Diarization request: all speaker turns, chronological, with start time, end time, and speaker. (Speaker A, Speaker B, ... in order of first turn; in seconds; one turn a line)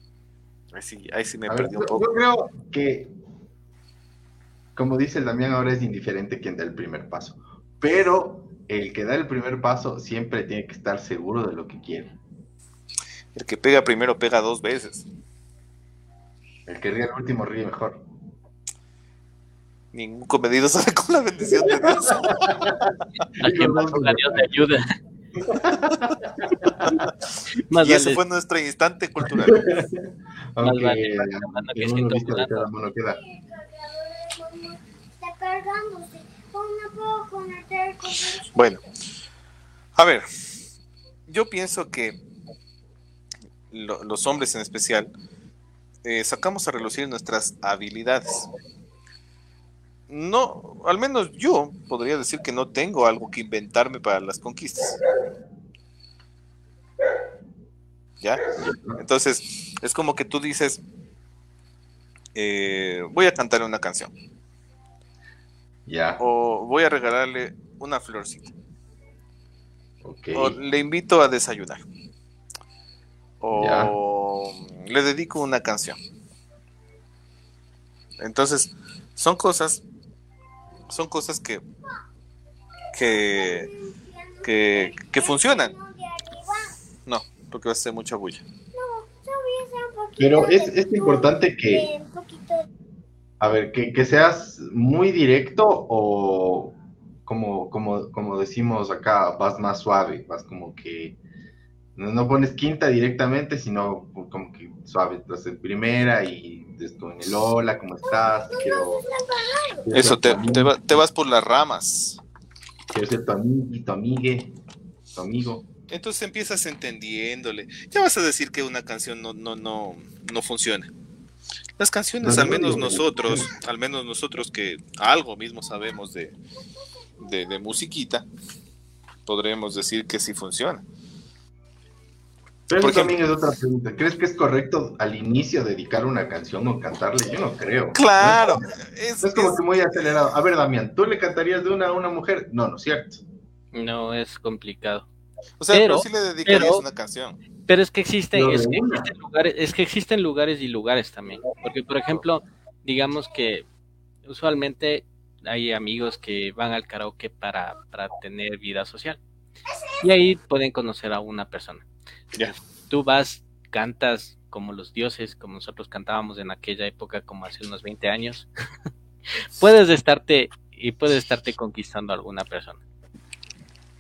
Speaker A: 0.7-2.0
Speaker B: 1.5-3.1
Speaker B: 4.8-12.2
Speaker A: 13.3-15.1
Speaker B: 16.7-18.1
Speaker A: 19.9-22.8
Speaker B: 21.8-22.9
Speaker C: 23.4-24.9
Speaker B: 23.4-24.5
Speaker B: 25.4-26.8
Speaker A: 26.8-27.1
Speaker C: 27.7-28.2
Speaker A: 27.8-29.9
Speaker B: 29.5-30.0
Speaker B: 30.5-33.2
Speaker C: 30.6-32.7
Speaker D: 33.1-38.5
Speaker A: 38.5-38.8
Speaker A: 40.0-40.3
Speaker A: 41.3-42.2
Speaker A: 43.7-45.1
Speaker A: 46.0-48.5
Speaker A: 50.1-55.0
Speaker B: 58.6-59.0
Speaker A: 59.0-60.8
Speaker A: 62.4-64.1
Speaker B: 65.9-66.2
Speaker A: 66.2-68.5
Speaker B: 70.0-70.6
Speaker A: 70.3-71.8
Speaker A: 73.4-76.0
Speaker B: 73.5-73.9
Speaker A: 78.2-79.8
Speaker A: 80.9-81.6
Speaker A: 82.9-83.7
Speaker D: 83.1-86.8
Speaker A: 84.4-85.7
Speaker A: 87.1-88.5
Speaker D: 88.7-92.7
Speaker B: 90.2-91.9
Speaker B: 93.4-101.2
Speaker B: 102.0-109.0
Speaker D: 108.1-109.9
Speaker B: 109.9-111.0
Speaker A: 109.9-112.2
Speaker B: 112.9-114.5
Speaker B: 115.2-115.7
Speaker A: 115.9-120.9
Speaker A: 121.8-126.4
Speaker B: 122.2-123.5
Speaker A: 127.2-128.3
Speaker A: 129.3-130.8
Speaker B: 132.7-138.6
Speaker A: 132.8-133.2
Speaker A: 137.9-139.6
Speaker B: 139.2-143.2
Speaker C: 143.7-145.1
Speaker A: 145.6-147.4
Speaker C: 145.7-146.8
Speaker C: 147.7-153.7
Speaker B: 148.3-149.1
Speaker C: 154.3-159.2
Speaker C: 160.0-161.9
Speaker C: 162.9-168.5
Speaker C: 169.4-172.8